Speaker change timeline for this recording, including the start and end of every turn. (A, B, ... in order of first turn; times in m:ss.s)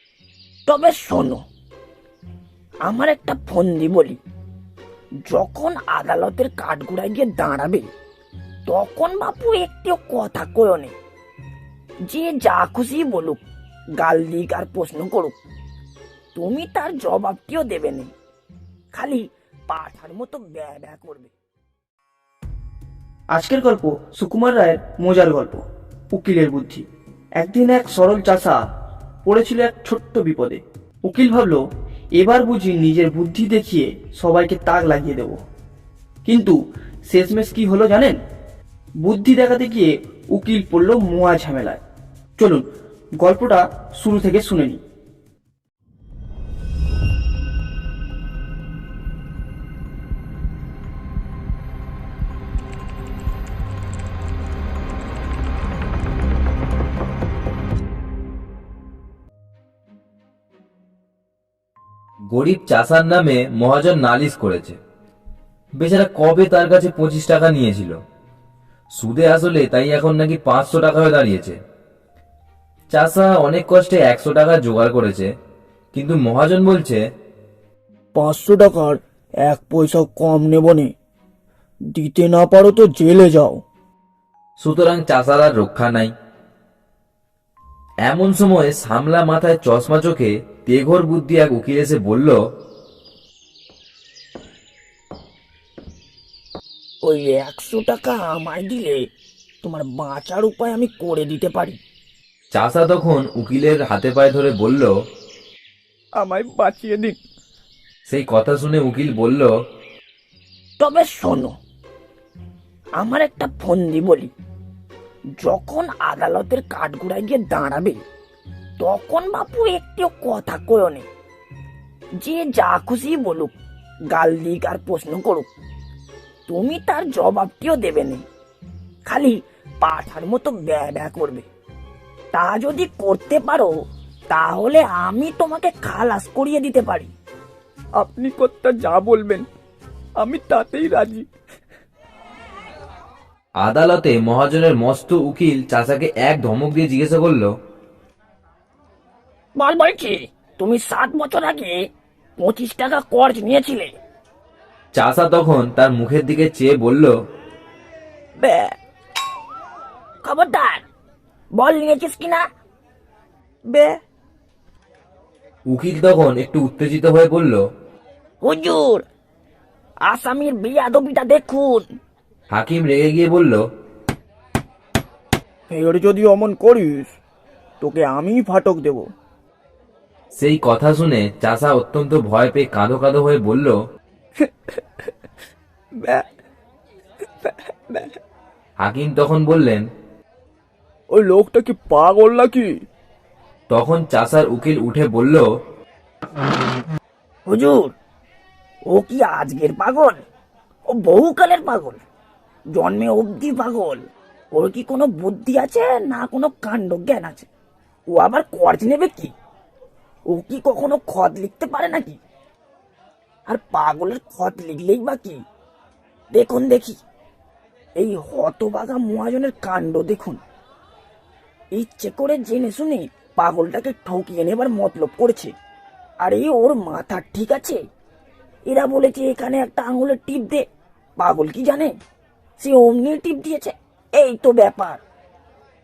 0:00.7-0:01.4 A
0:02.8-0:04.2 A
0:05.3-0:07.9 A
0:08.7-0:11.0 A
0:12.1-0:13.4 A
0:14.0-0:15.4 A
0:16.4-0:18.1 A
0:18.9-0:21.3 A
0:23.3-0:26.8 B
0:27.4-0:28.6 B
0:29.2-0:31.6 B
0:32.2-0:35.4 B
0:36.2-0:36.6 B
0:37.1-0:38.2 B
0:39.0-0:41.8 B
0:42.4-0:42.6 B
0:43.2-0:44.8 B
1:02.3-1:04.8 C
1:05.8-1:08.0 C
1:09.0-1:11.6 C
1:12.9-1:15.3 C
1:15.9-1:17.0 C
1:18.2-1:20.9 D
1:18.2-1:18.9 B
1:19.5-1:20.8 B
1:22.0-1:23.5 B
1:22.0-1:23.6 D
1:24.6-1:26.1 C
1:28.0-1:32.4 C
1:37.0-1:39.0 A
1:39.6-1:41.8 A
1:42.5-1:44.9 C
1:46.2-1:47.2 D
1:48.1-1:49.5 C
1:50.8-1:51.5 A
1:53.0-1:54.3 A
1:55.4-1:58.0 A
1:58.8-2:01.1 A
2:02.2-2:03.6 A
2:04.1-2:05.5 A
2:06.5-2:08.2 A
2:09.1-2:11.5 A
2:12.3-2:13.7 A
2:14.3-2:17.1 A
2:18.0-2:19.4 D
2:20.2-2:21.2 D
2:23.6-2:27.5 C
2:29.6-2:31.8 A
2:32.4-2:34.0 A
2:34.9-2:37.1 C
2:38.4-2:38.7 A
2:40.2-2:40.8 A
2:41.5-2:42.4 A
2:43.7-2:44.0 A
2:45.7-2:47.6 C
2:48.4-2:49.1 A
2:50.1-2:51.9 A
2:52.5-2:53.6 C
2:55.7-2:57.1 B
2:57.8-2:59.1 B
3:00.3-3:03.7 C
3:08.8-3:09.8 C
3:11.1-3:12.7 D
3:13.7-3:15.4 C
3:17.5-3:18.0 A
3:18.9-3:20.2 A
3:20.9-3:22.0 A
3:22.7-3:27.5 A
3:28.1-3:29.3 A
3:30.3-3:32.2 A
3:33.5-3:35.4 A
3:36.3-3:37.0 A
3:38.0-3:40.4 A
3:41.7-3:45.5 A
3:46.2-3:47.8 A
3:48.7-3:50.7 A
3:51.2-3:51.9 A
3:52.6-3:55.0 A